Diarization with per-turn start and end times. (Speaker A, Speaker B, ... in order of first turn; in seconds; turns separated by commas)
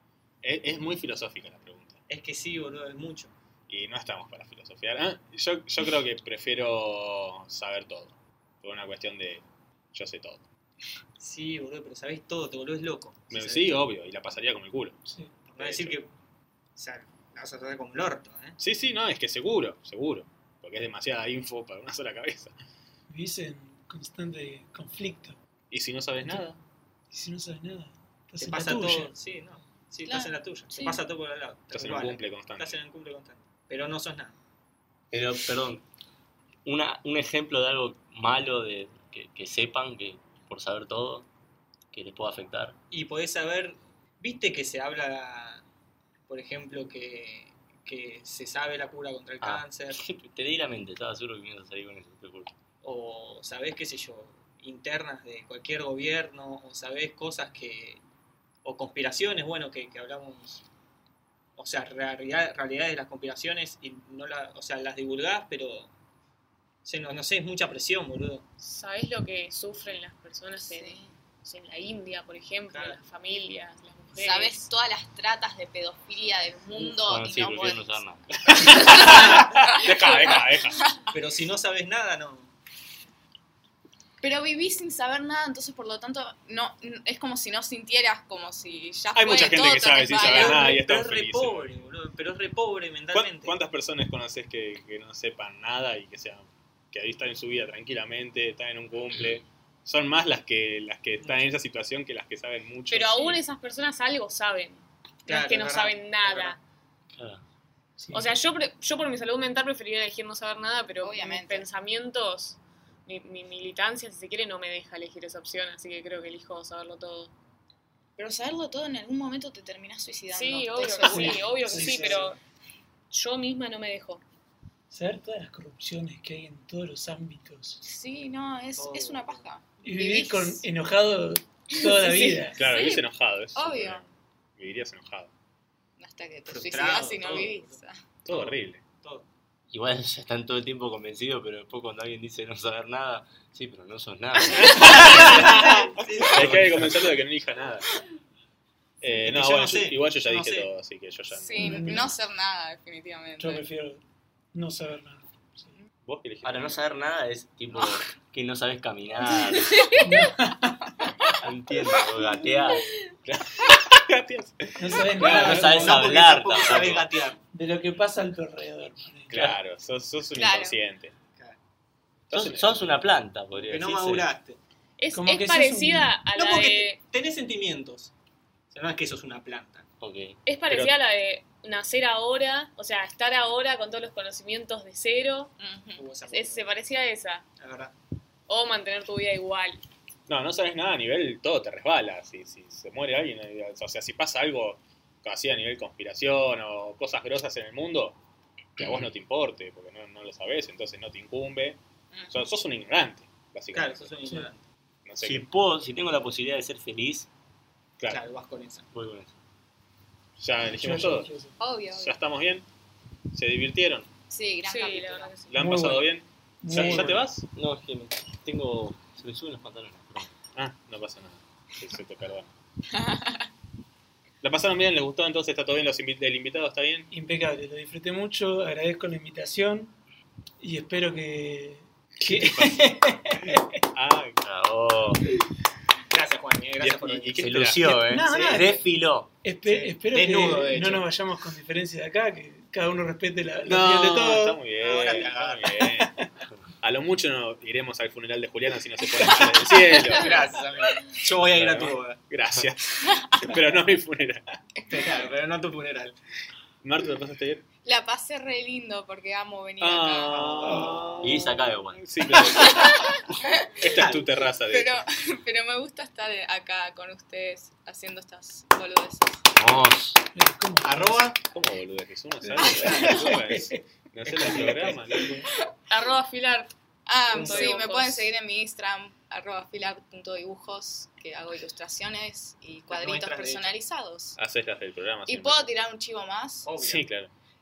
Speaker A: 0.4-2.0, Speaker B: 2.1-3.3, Speaker A: 3.7-10.4, Speaker B: 11.2-13.8, Speaker A: 13.3-15.0, Speaker C: 15.1-15.3, Speaker B: 15.5-16.1, Speaker A: 15.6-16.0, Speaker B: 16.8-18.6, Speaker A: 18.6-22.5, Speaker C: 23.1-25.4, Speaker A: 25.7-26.6, Speaker C: 27.1-29.1, Speaker B: 28.4-34.3, Speaker D: 30.1-31.0, Speaker A: 31.7-32.8, Speaker E: 35.1-35.8, Speaker E: 36.6-41.3, Speaker E: 41.9-42.8, Speaker B: 42.9-45.6, Speaker B: 46.3-50.0, Speaker E: 49.4-52.5, Speaker B: 52.8-58.0, Speaker B: 58.6-60.6, Speaker B: 61.6-65.9, Speaker B: 66.8-68.4, Speaker F: 68.6-74.7, Speaker D: 70.6-71.1, Speaker B: 72.7-73.0, Speaker D: 74.1-80.5, Speaker E: 76.7-78.4, Speaker A: 78.5-80.8, Speaker B: 81.1-82.5, Speaker D: 84.2-90.8, Speaker A: 89.1-91.8, Speaker B: 90.2-93.6, Speaker A: 93.1-103.4, Speaker F: 102.9-106.6, Speaker B: 105.2-106.6, Speaker E: 107.1-107.4, Speaker C: 108.0-108.3, Speaker F: 108.1-117.3, Speaker D: 111.0-111.7, Speaker D: 118.2-121.6, Speaker F: 120.3-122.4, Speaker C: 121.0-122.3, Speaker B: 121.6-122.4, Speaker F: 123.1-124.2, Speaker C: 124.9-127.8, Speaker D: 127.8-130.6, Speaker B: 128.8-129.5, Speaker C: 129.8-132.6, Speaker D: 131.7-134.0, Speaker A: 132.6-135.3, Speaker D: 136.0-138.0, Speaker B: 136.5-137.8, Speaker A: 138.2-138.8, Speaker B: 138.3-139.3, Speaker E: 139.7-145.7, Speaker A: 144.6-147.9, Speaker B: 145.1-146.8, Speaker E: 146.2-146.9, Speaker A: 149.0-151.9, Speaker B: 149.2-150.7, Speaker D: 151.3-153.6, Speaker C: 151.6-152.1, Speaker C: 153.4-154.0, Speaker C: 154.5-155.7, Speaker A: 156.0-156.8, Speaker E: 156.4-159.9, Speaker D: 159.7-160.0, Speaker C: 160.0-161.0, Speaker E: 161.4-162.8, Speaker A: 163.2-165.7, Speaker C: 164.8-166.0, Speaker E: 165.2-167.1, Speaker B: 165.2-167.4, Speaker C: 167.5-169.6, Speaker A: 169.3-171.1, Speaker D: 170.3-170.8, Speaker A: 172.3-172.8, Speaker E: 172.3-174.3, Speaker B: 173.5-174.6, Speaker F: 175.0-177.0, Speaker C: 175.1-176.2, Speaker B: 176.3-178.1, Speaker B: 178.7-179.8, Speaker E: 180.0-180.4, Speaker F: 180.4-185.5, Speaker D: 185.6-186.1, Speaker B: 186.0-186.7, Speaker F: 186.3-187.4, Speaker B: 187.6-187.9, Speaker F: 188.5-189.8, Speaker A: 190.3-198.2, Speaker A: 198.8-204.1, Speaker D: 202.1-202.4, Speaker B: 203.7-204.6, Speaker A: 205.1-205.5, Speaker E: 205.2-207.3, Speaker A: 208.0-208.2, Speaker B: 208.1-208.9, Speaker E: 208.9-209.3, Speaker A: 210.4-211.3, Speaker C: 210.7-211.6, Speaker D: 211.6-212.2, Speaker A: 211.9-212.7, Speaker A: 213.3-214.1, Speaker D: 214.3-215.3, Speaker F: 214.6-215.6, Speaker A: 215.5-217.5, Speaker C: 215.6-217.2, Speaker E: 216.7-217.0, Speaker E: 217.5-220.3, Speaker A: 220.5-222.5, Speaker D: 222.9-223.5, Speaker A: 224.4-227.1, Speaker C: 227.1-229.9, Speaker C: 230.6-233.8, Speaker A: 232.2-234.4, Speaker E: 234.4-235.3, Speaker B: 236.1-237.7, Speaker A: 236.8-238.1, Speaker E: 237.4-239.3, Speaker C: 237.9-238.8, Speaker B: 238.2-238.9, Speaker C: 239.4-244.6, Speaker B: 239.6-241.1, Speaker A: 243.6-246.1, Speaker B: 244.8-245.8, Speaker A: 246.8-250.6, Speaker B: 250.1-252.2, Speaker A: 251.5-254.6, Speaker D: 253.0-253.6, Speaker B: 254.9-256.1, Speaker A: 256.8-257.6, Speaker D: 257.8-260.7, Speaker A: 259.8-263.1, Speaker B: 260.3-261.3, Speaker E: 261.2-262.1, Speaker D: 262.3-263.9, Speaker A: 263.8-265.0, Speaker B: 263.9-264.2, Speaker D: 264.5-269.5, Speaker E: 269.6-270.2, Speaker C: 270.3-271.3, Speaker B: 270.8-271.4, Speaker A: 271.5-275.5, Speaker C: 272.5-273.6, Speaker B: 272.9-273.2, Speaker B: 274.2-275.1, Speaker F: 275.9-276.7, Speaker D: 277.1-284.4, Speaker F: 277.3-278.3, Speaker B: 277.3-277.8, Speaker B: 282.9-283.8, Speaker A: 284.4-285.7, Speaker D: 285.3-286.7, Speaker B: 286.6-287.1, Speaker A: 286.8-287.3